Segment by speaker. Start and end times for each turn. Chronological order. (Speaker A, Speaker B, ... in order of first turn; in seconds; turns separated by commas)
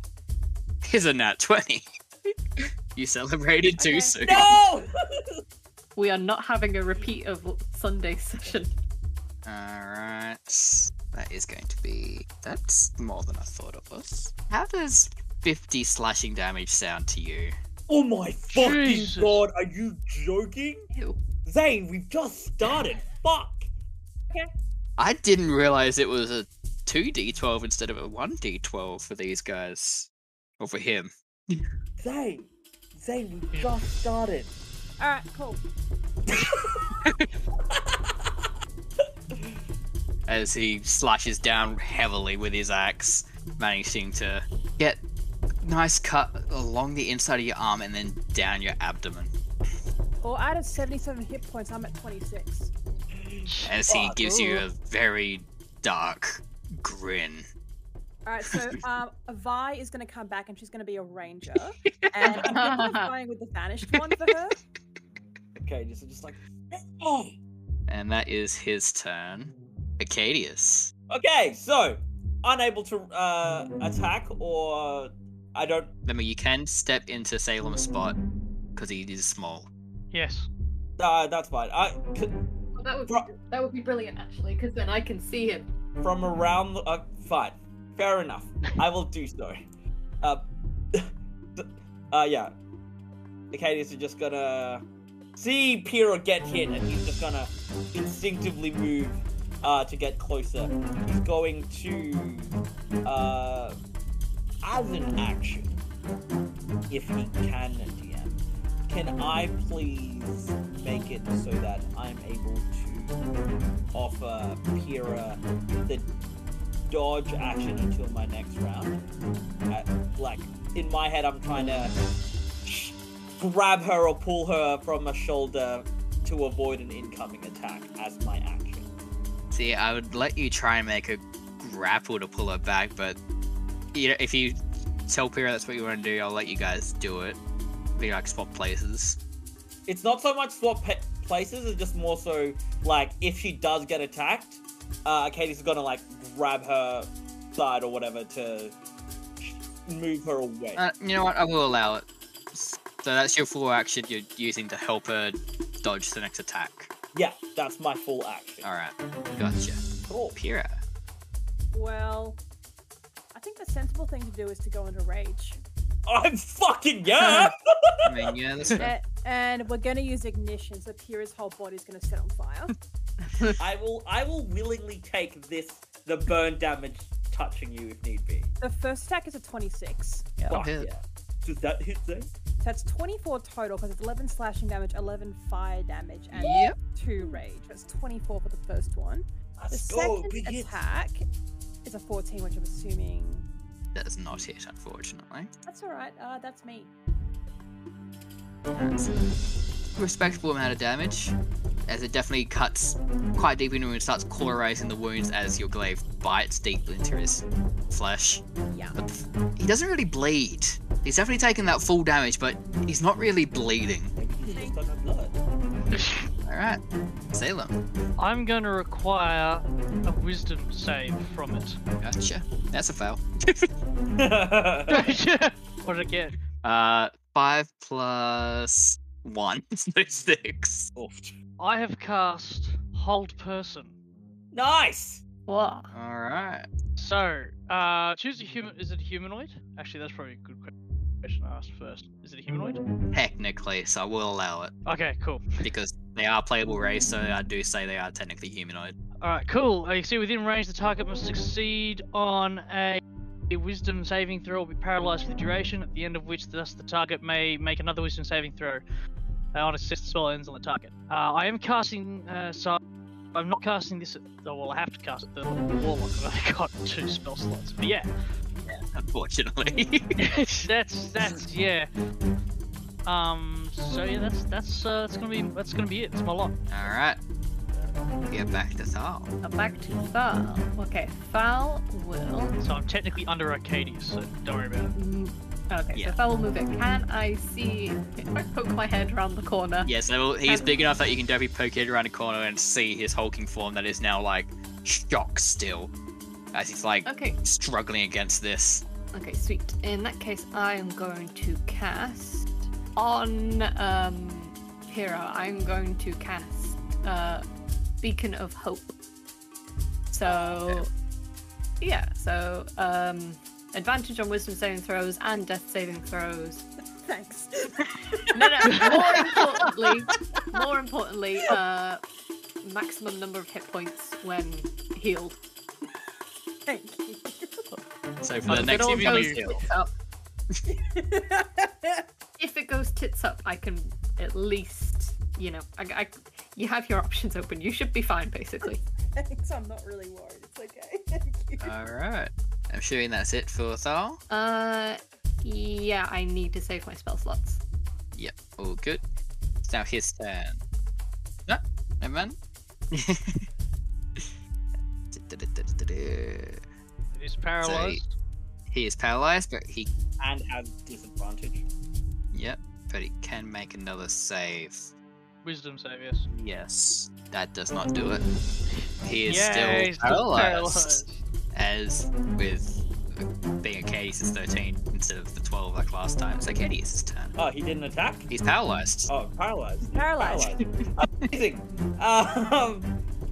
Speaker A: 0.8-1.9, Speaker A: 2.9-4.5, Speaker B: 3.8-4.6, Speaker C: 4.3-5.4, Speaker D: 6.0-8.7, Speaker A: 9.4-17.6, Speaker C: 17.9-20.9, Speaker E: 18.5-19.4, Speaker D: 20.9-21.2, Speaker C: 21.5-23.7, Speaker A: 25.0-31.6, Speaker C: 32.0-34.6, Speaker B: 35.0-35.6, Speaker C: 36.3-37.0, Speaker A: 37.0-37.3, Speaker C: 37.7-38.3, Speaker C: 39.3-39.6, Speaker A: 40.3-45.0, Speaker A: 45.6-49.3, Speaker B: 50.2-52.7, Speaker C: 53.2-54.2, Speaker E: 53.5-53.8, Speaker A: 53.6-57.5, Speaker B: 58.2-64.6, Speaker D: 61.9-63.1, Speaker C: 65.6-67.4, Speaker A: 67.9-70.9, Speaker C: 71.1-75.9, Speaker A: 76.1-78.2, Speaker A: 78.8-79.7, Speaker E: 80.1-80.5, Speaker C: 81.0-82.4, Speaker D: 82.8-85.7, Speaker C: 83.1-83.3, Speaker C: 86.0-89.7, Speaker C: 90.2-92.5, Speaker C: 93.5-94.8, Speaker C: 95.4-103.8, Speaker C: 104.6-105.9, Speaker C: 106.9-113.2, Speaker C: 113.9-116.1, Speaker C: 116.9-119.0, Speaker C: 119.7-122.0, Speaker C: 122.7-128.9, Speaker A: 129.5-133.2, Speaker A: 133.9-137.4, Speaker A: 138.0-139.2, Speaker C: 139.9-148.8, Speaker C: 149.4-150.8, Speaker A: 150.8-156.9, Speaker C: 157.1-158.7, Speaker A: 158.6-160.8, Speaker C: 160.1-160.3, Speaker B: 161.7-162.4, Speaker B: 163.3-165.6, Speaker C: 166.1-167.6, Speaker A: 168.1-168.9, Speaker B: 168.8-172.7, Speaker D: 173.2-173.6, Speaker C: 173.6-178.5, Speaker B: 178.6-180.4, Speaker A: 180.5-180.9, Speaker C: 180.5-182.3, Speaker B: 182.6-191.2, Speaker A: 186.3-186.8, Speaker C: 189.6-190.8, Speaker B: 191.8-193.5, Speaker A: 193.9-195.5, Speaker B: 195.7-196.9, Speaker A: 198.8-199.3, Speaker A: 199.9-201.4, Speaker A: 201.9-208.4, Speaker B: 208.7-209.0, Speaker A: 208.9-214.1, Speaker C: 214.2-215.4, Speaker E: 215.9-216.2, Speaker A: 216.4-216.8, Speaker A: 217.3-217.8, Speaker E: 218.2-221.8, Speaker A: 222.0-223.7, Speaker C: 224.2-225.1, Speaker E: 224.9-226.3, Speaker A: 226.6-230.9, Speaker C: 231.0-231.3, Speaker E: 231.6-234.0, Speaker C: 234.5-235.2, Speaker D: 235.5-235.9, Speaker A: 235.9-236.7, Speaker E: 237.0-242.8, Speaker A: 243.1-244.7, Speaker E: 244.9-245.6, Speaker A: 245.6-249.0, Speaker E: 249.2-258.8, Speaker E: 259.5-262.8, Speaker E: 263.3-268.1, Speaker A: 268.6-270.3, Speaker E: 270.2-271.9, Speaker E: 273.1-276.6, Speaker A: 276.7-277.2, Speaker C: 277.7-278.0, Speaker A: 278.3-279.3, Speaker D: 279.4-282.6, Speaker E: 282.6-284.9, Speaker D: 284.9-290.7, Speaker A: 289.8-295.9, Speaker A: 296.5-298.9, Speaker D: 297.1-297.4, Speaker D: 299.1-307.4, Speaker D: 308.0-308.9, Speaker D: 310.1-310.9, Speaker D: 311.8-316.7, Speaker B: 317.1-319.7, Speaker D: 318.3-322.0, Speaker D: 322.6-325.4, Speaker B: 326.7-327.6, Speaker A: 328.2-329.6, Speaker E: 328.5-329.5, Speaker D: 328.5-329.9, Speaker B: 330.7-332.1, Speaker D: 332.4-338.8, Speaker B: 338.6-341.7, Speaker A: 341.6-344.2, Speaker D: 344.3-347.6, Speaker A: 348.1-349.0, Speaker A: 349.6-350.6, Speaker A: 351.5-352.4, Speaker A: 352.9-353.5, Speaker A: 355.1-356.6, Speaker E: 357.1-358.1, Speaker A: 357.6-358.0, Speaker A: 358.7-359.9, Speaker C: 360.2-361.6, Speaker A: 362.3-364.9, Speaker E: 365.4-366.3, Speaker A: 366.3-368.3, Speaker E: 368.8-371.2, Speaker A: 369.0-377.4, Speaker C: 377.4-378.3, Speaker A: 378.3-379.1, Speaker C: 379.1-382.9, Speaker B: 379.9-380.6